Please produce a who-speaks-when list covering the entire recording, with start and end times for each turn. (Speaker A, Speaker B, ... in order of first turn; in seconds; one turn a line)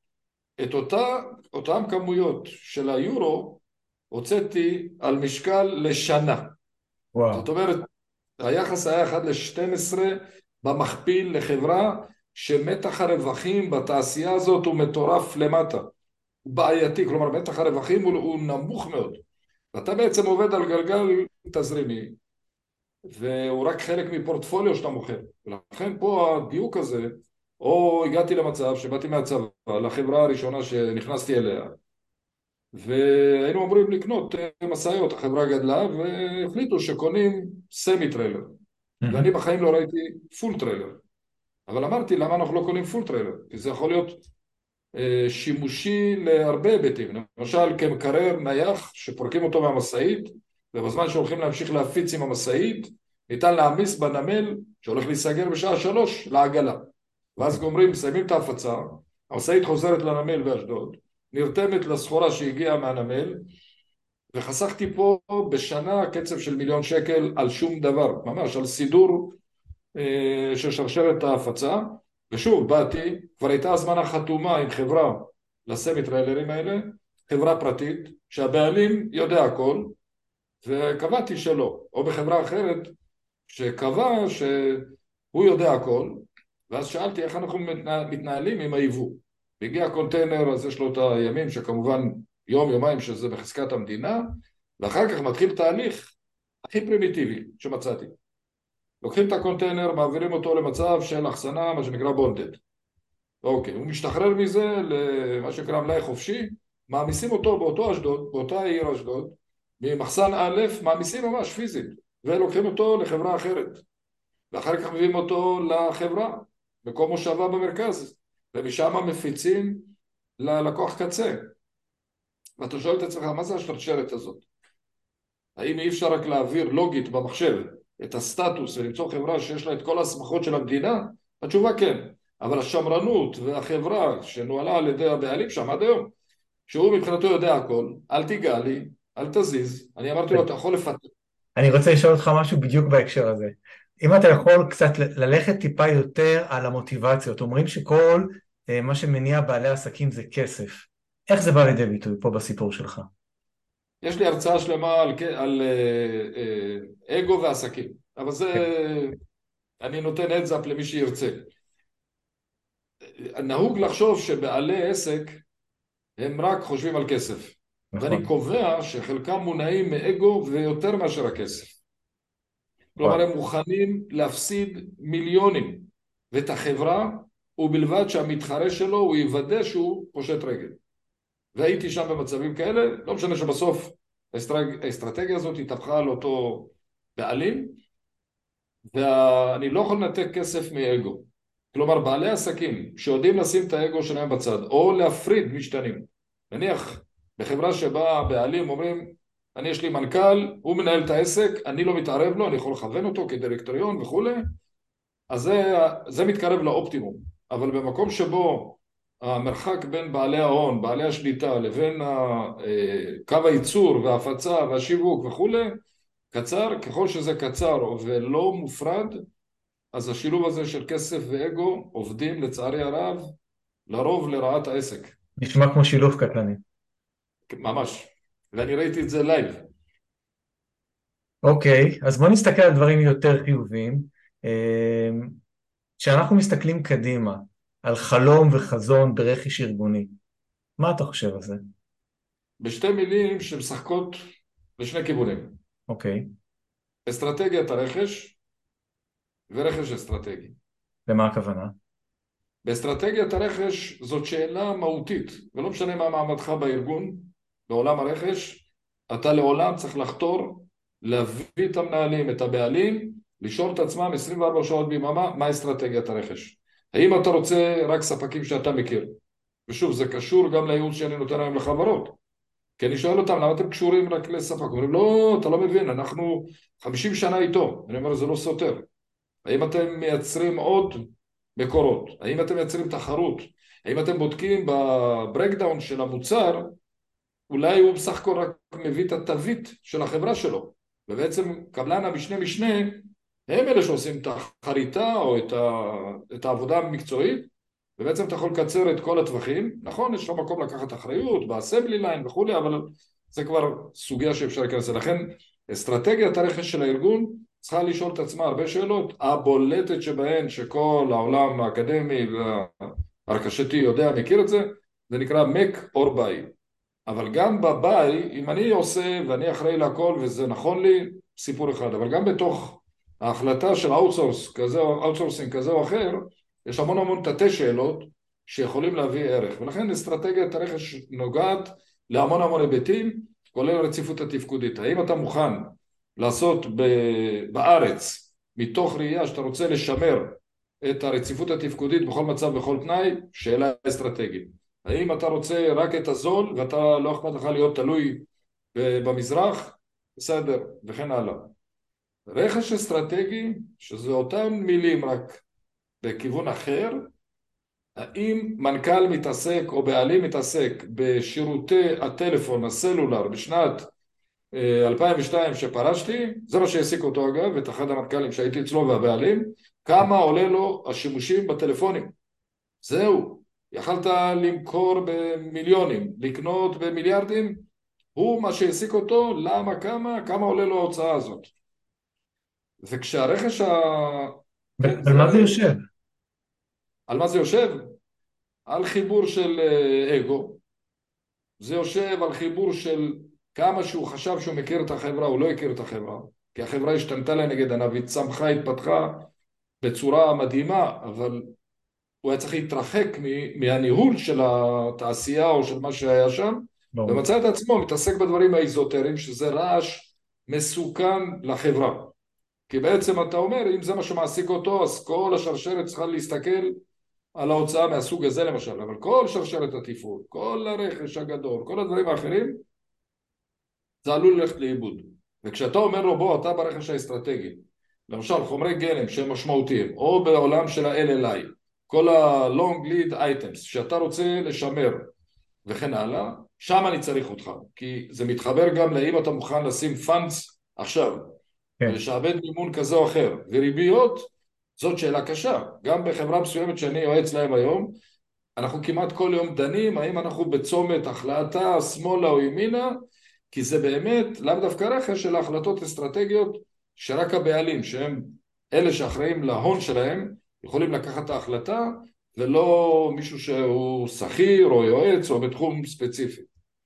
Speaker A: 0.6-6.5
Speaker B: 7.1-7.4
Speaker A: 7.3-7.9
Speaker A: 8.4-15.9
Speaker A: 16.4-19.2
Speaker A: 19.7-22.1
Speaker A: 23.1-31.7
Speaker A: 32.7-38.5
Speaker B: 39.0-39.3
Speaker A: 39.1-41.0
Speaker A: 41.7-44.2
Speaker A: 44.9-63.5
Speaker A: 64.3-69.4
Speaker A: 69.9-79.9
Speaker A: 80.6-82.9
Speaker A: 83.5-98.1
Speaker A: 99.0-102.6
Speaker A: 103.4-113.8
Speaker A: 114.5-121.4
Speaker A: 122.6-124.4
Speaker A: 125.6-136.1
Speaker A: 136.7-141.1
Speaker B: 141.6-153.1
Speaker A: 154.0-159.2
Speaker A: 159.8-161.5
Speaker A: 163.2-165.4
Speaker A: 166.2-171.8
Speaker B: 167.9-168.3
Speaker A: 173.0-180.8
Speaker A: 181.5-187.8
Speaker A: 188.9-204.5
Speaker A: 205.3-215.8
Speaker A: 216.3-219.2
Speaker A: 219.9-223.3
Speaker A: 223.9-225.2
Speaker B: 225.4-226.6
Speaker A: 227.5-229.7
Speaker B: 231.4-235.3
Speaker B: 236.0-240.1
Speaker B: 240.8-241.6
Speaker A: 242.6-244.2
Speaker A: 244.8-245.5
Speaker B: 245.9-246.3
Speaker A: 247.1-248.4
Speaker A: 249.5-250.5
Speaker B: 251.1-251.7
Speaker A: 252.6-269.1
Speaker A: 269.7-272.2
Speaker A: 272.8-278.8
Speaker A: 279.4-281.1
Speaker A: 281.6-286.7
Speaker A: 287.5-316.5
Speaker A: 317.1-351.5
Speaker A: 352.3-355.4
Speaker A: 356.0-357.1
Speaker A: 358.0-363.9
Speaker A: 364.5-372.1
Speaker A: 372.8-377.6
Speaker A: 378.1-381.5
Speaker A: 382.8-385.6
Speaker B: 384.8-385.8
Speaker A: 387.1-387.9
Speaker A: 388.7-390.6
Speaker A: 391.6-399.3
Speaker A: 399.8-401.5
Speaker A: 402.2-412.1
Speaker B: 406.9-407.2
Speaker A: 412.7-416.8
Speaker A: 417.3-422.6
Speaker A: 424.0-435.1
Speaker A: 435.6-441.3
Speaker A: 441.9-447.9
Speaker A: 448.6-453.0
Speaker A: 453.5-466.5